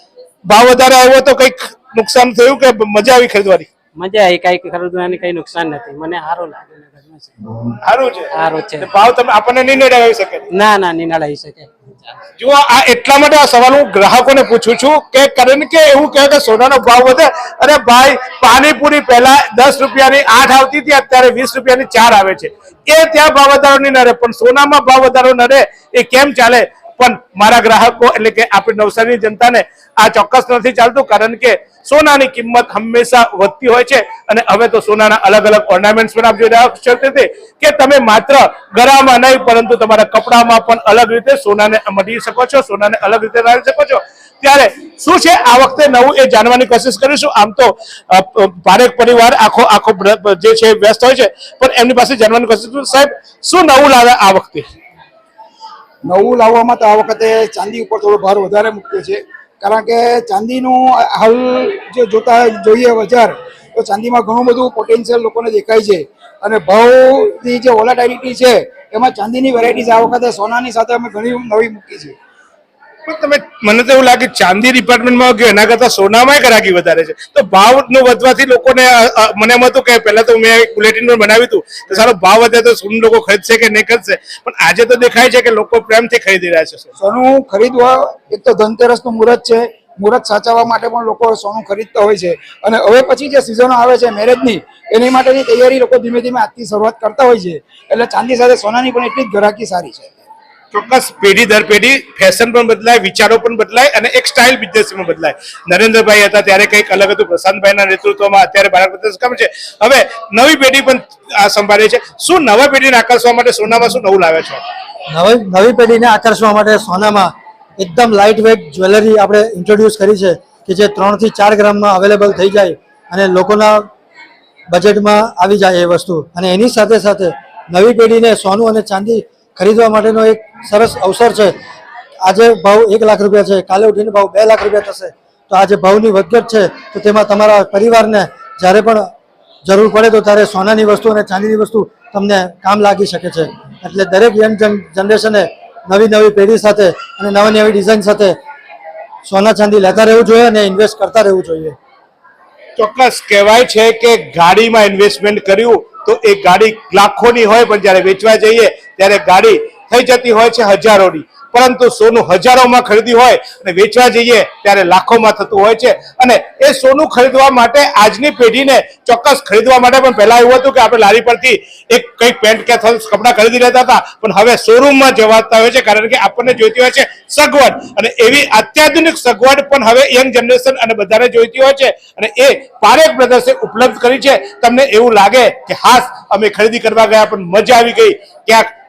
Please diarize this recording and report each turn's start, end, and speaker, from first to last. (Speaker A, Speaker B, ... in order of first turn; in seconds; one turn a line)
Speaker A: 0.5-3.7
Speaker B: 4.0-7.3
Speaker A: 7.8-10.5
Speaker B: 8.3-8.9
Speaker B: 10.5-12.1
Speaker A: 12.4-54.7
Speaker C: 56.0-72.2
Speaker A: 73.1-86.9
Speaker C: 87.0-100.3
Speaker A: 100.7-114.6
Speaker D: 115.1-123.9
Speaker D: 124.7-131.5
Speaker D: 132.2-139.1
Speaker D: 139.7-148.4
Speaker D: 149.2-151.8
Speaker A: 152.8-188.7